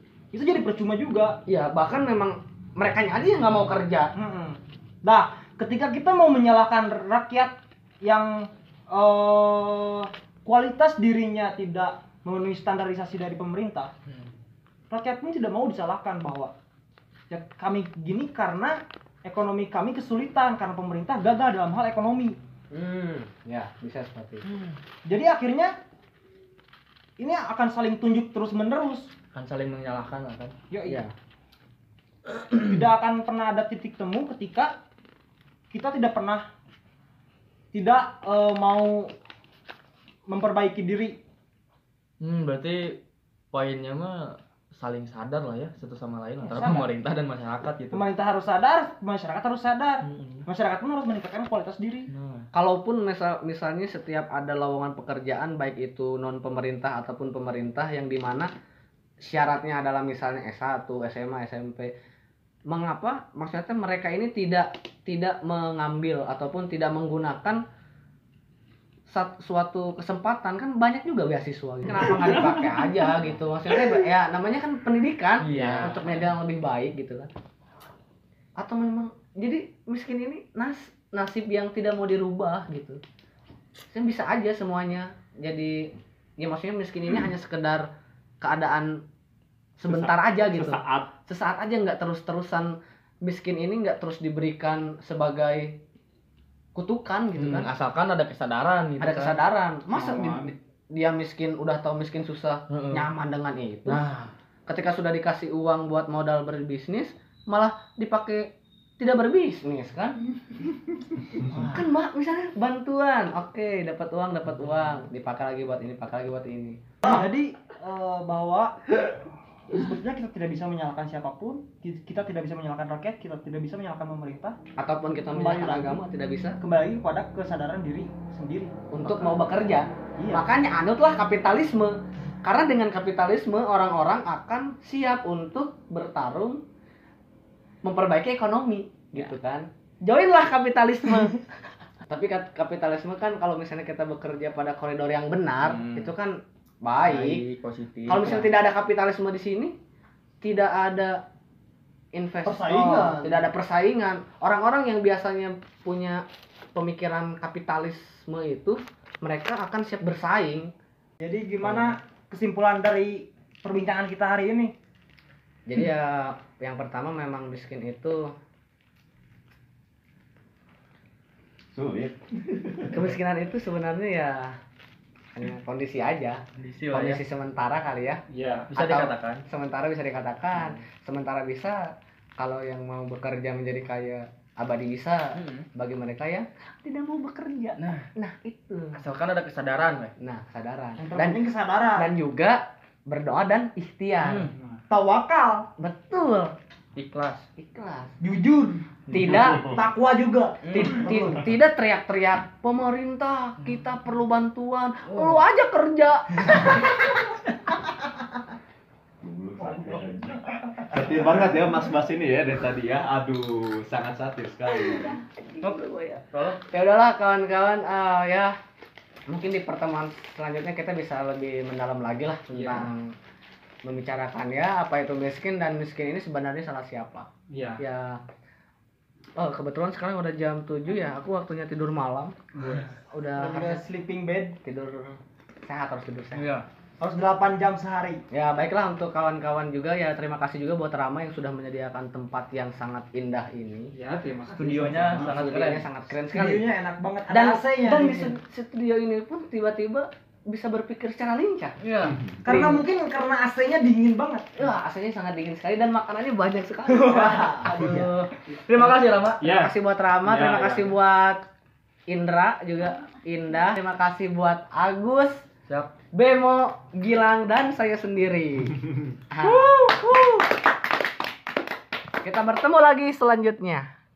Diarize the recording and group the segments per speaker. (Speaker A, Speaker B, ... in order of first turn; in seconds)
Speaker A: 0.3-1.4, 4.1-13.9, 14.9-16.5, 17.3-22.4, 25.0-25.7, 27.2-29.1, 30.7-31.0, 32.6-34.7, 35.7-36.5, 37.7-39.1, 40.3-41.2, 46.4-46.9, 47.9-52.1, 117.0-119.1, 119.7-124.6, 125.3-126.0, 126.6-128.8, 130.2-130.4, 152.4-153.4, 161.2-164.7, 191.0-192.1, 194.9-195.7, 198.2-201.3, 233.3-234.6, 237.0-238.2, 246.3-248.3, 252.4-254.5, 257.6-258.0
Speaker B: 1.5-4.1, 22.7-24.5, 30.9-31.1, 52.5-58.5, 59.2-61.9, 62.7-67.6, 69.1-77.3, 78.6-83.0, 83.9-87.8, 88.4-89.0, 89.8-95.8, 96.7-97.7, 99.0-104.0, 104.7-110.2, 111.6-117.1, 124.8-126.6, 128.9-136.6, 137.8-141.4, 142.1-147.4, 148.1-149.8, 150.4-151.2, 152.1-156.2, 156.7-160.7, 161.6-161.9, 165.7-168.3, 172.9-174.6, 175.3-178.2, 178.7-189.0, 190.2-191.4, 192.0-194.5, 195.8-196.5, 197.6-198.1, 199.1-199.8, 200.7-207.2, 215.5-218.6, 219.3-223.1, 223.8-227.3, 227.8-228.2, 229.4-232.4, 233.1-233.8, 234.6-236.4, 238.3-243.9, 245.1-246.6, 247.3-251.8, 254.6-258.4, 259.5-261.4, 262.1-265.4, 266.1-270.0, 272.2-273.9
Speaker C: 24.5-24.8, 29.3-30.5, 42.2-43.0, 43.5-48.0, 50.0-50.5, 52.1-52.5, 75.4-76.0, 97.3-99.3, 102.7-103.1, 103.8-104.3, 111.5-111.8, 145.6-146.1, 147.1-148.5, 176.6-177.2, 178.7-179.4, 180.6-180.8, 185.3-185.7, 187.8-188.1, 188.9-190.1, 194.2-194.5, 196.9-197.5, 200.6-201.2, 205.1-205.4, 215.6-216.6, 236.3-236.7, 244.5-245.8, 251.8-252.6, 256.9-259.5, 265.7-265.9
Speaker D: 89.9-91.1, 99.9-100.5, 178.3-178.7, 194.5-194.8, 222.5-222.9, 227.5-227.8, 232.5-232.9, 243.9-245.4, 259.4-260.9, 269.6-270.0
Speaker E: 171.7-172.9, 209.2-215.2